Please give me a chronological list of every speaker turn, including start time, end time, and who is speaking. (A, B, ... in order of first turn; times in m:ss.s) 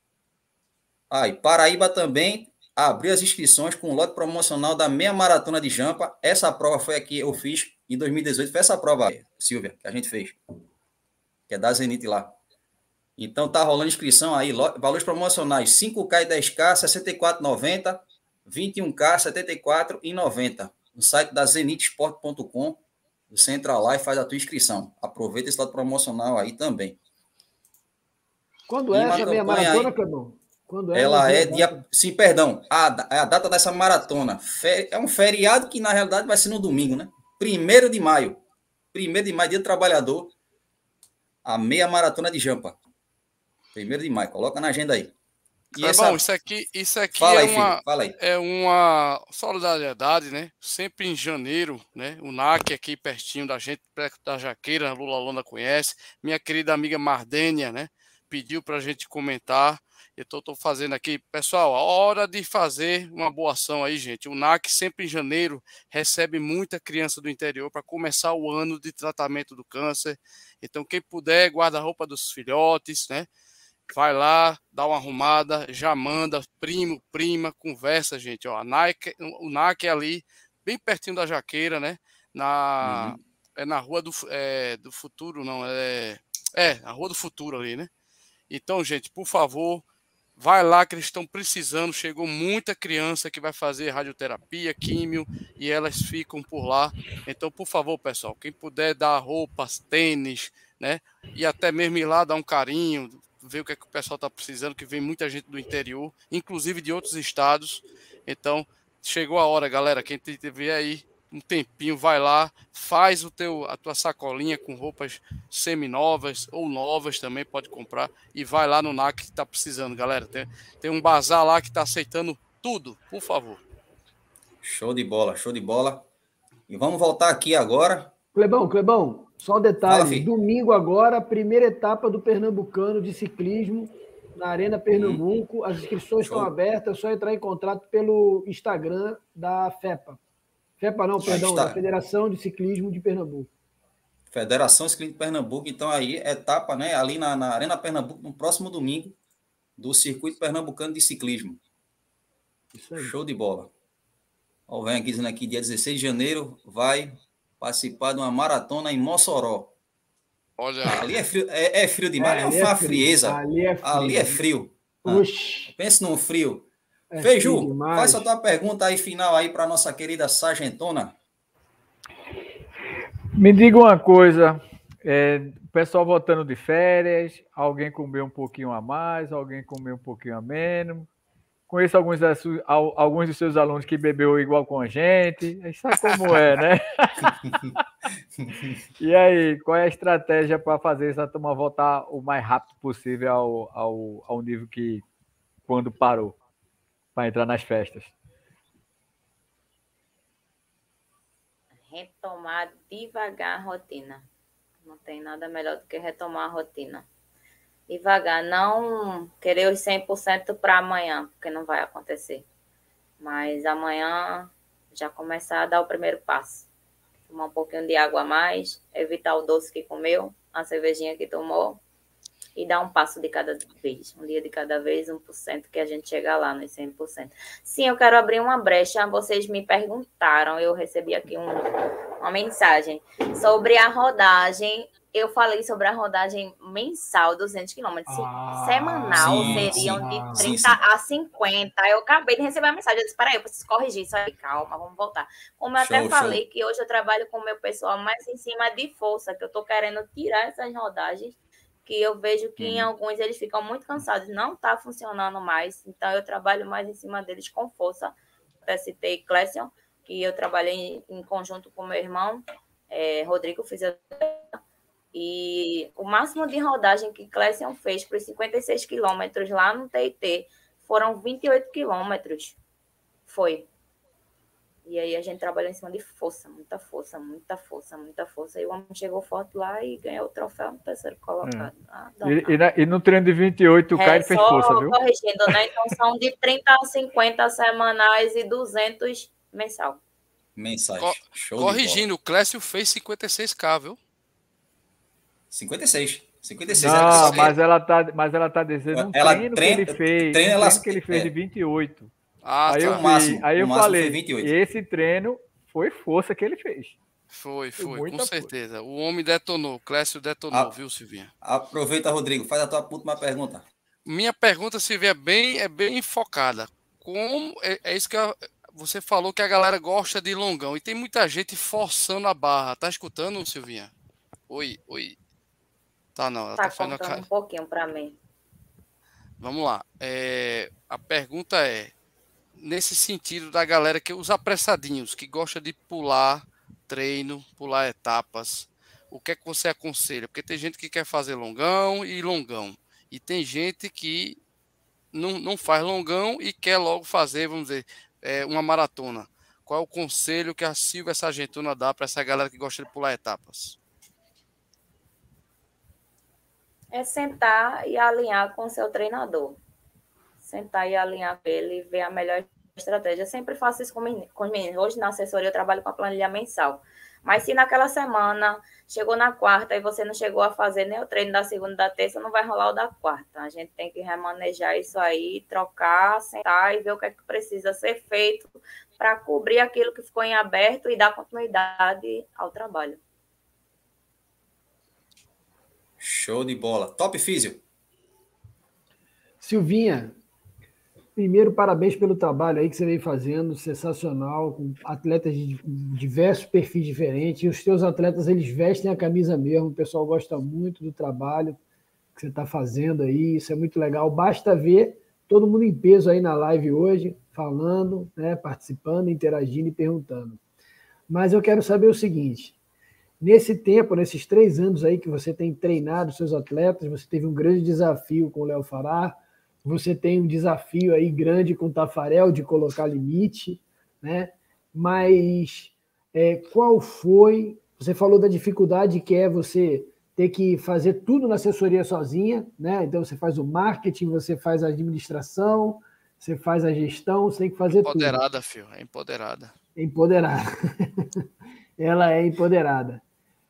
0:01.1-0:10.4 A
0:11.5-0:12.4 A
0:13.2-0:22.8 A
0:23.3-0:27.0 A
0:28.7-0:31.8 B
0:28.9-0:29.9 A
0:30.9-0:38.4 A
0:38.9-0:40.3 A
0:41.4-0:42.8 A
0:43.8-0:45.1 A
0:45.7-0:46.2 A
0:45.8-1:13.3 C
0:47.1-0:48.2 A
1:13.9-1:27.9 C
1:22.8-1:23.2 A
1:28.5-1:29.8 C
1:30.4-2:03.6 C
2:04.6-2:06.0 A
2:06.7-2:08.1 A
2:08.4-2:20.2 B
2:09.9-2:10.3 A
2:14.9-2:15.2 A
2:16.2-2:16.5 A
2:20.8-2:23.5 B
2:21.2-2:21.8 A
2:24.3-2:29.2 A
2:29.8-2:31.6 A
2:32.7-2:33.2 B
2:33.0-2:33.7 A
2:34.7-2:39.7 A
2:40.6-2:41.2 C
2:40.8-2:46.7 A
2:42.2-2:44.4 B
2:45.0-2:45.7 B
2:47.1-2:48.3 B
2:47.2-2:51.2 A
2:53.4-3:01.1 D
3:01.7-3:07.8 D
3:09.0-3:15.1 D
3:15.7-3:16.4 D
3:17.2-3:18.2 D
3:21.9-3:24.3 E
3:24.8-3:27.1 E
3:27.9-3:32.5 E
3:33.2-3:36.7 E
3:37.3-3:41.8 E
3:42.6-3:51.7 E
3:52.2-4:24.6 E
3:58.1-4:00.5 B
3:59.1-4:00.8 A
4:05.8-4:06.4 A
4:12.6-4:12.9 A
4:25.1-4:32.6 E
4:33.3-4:33.7 E
4:34.9-4:42.6 E
4:41.4-4:41.7 D
4:42.2-4:45.0 D
4:43.9-4:50.0 E
4:50.6-4:52.1 A
4:51.0-4:54.0 C
4:55.5-4:57.5 A
4:56.7-5:02.1 D
4:56.9-4:57.6 C
4:58.9-5:01.3 A
5:02.4-5:03.0 C
5:02.7-5:07.0 D
5:02.8-5:04.5 A
5:07.3-5:11.3 C
5:07.8-5:08.5 D
5:11.4-5:13.7 A
5:14.1-5:23.9 C
5:24.5-5:25.2 C
5:26.2-5:27.2 C
5:26.6-5:28.2 E
5:29.4-5:31.9 C
5:32.6-5:44.4 C
5:45.1-5:53.8 C
5:56.9-5:59.6 E
6:00.4-6:23.0 E
6:26.0-6:27.6 A
6:29.4-6:30.2 B
6:31.2-6:41.6 B
6:42.2-6:50.4 B
6:51.1-6:52.6 B
6:53.2-7:18.2 B
7:17.7-7:19.5 C
7:19.8-7:21.1 B
7:21.8-7:23.0 B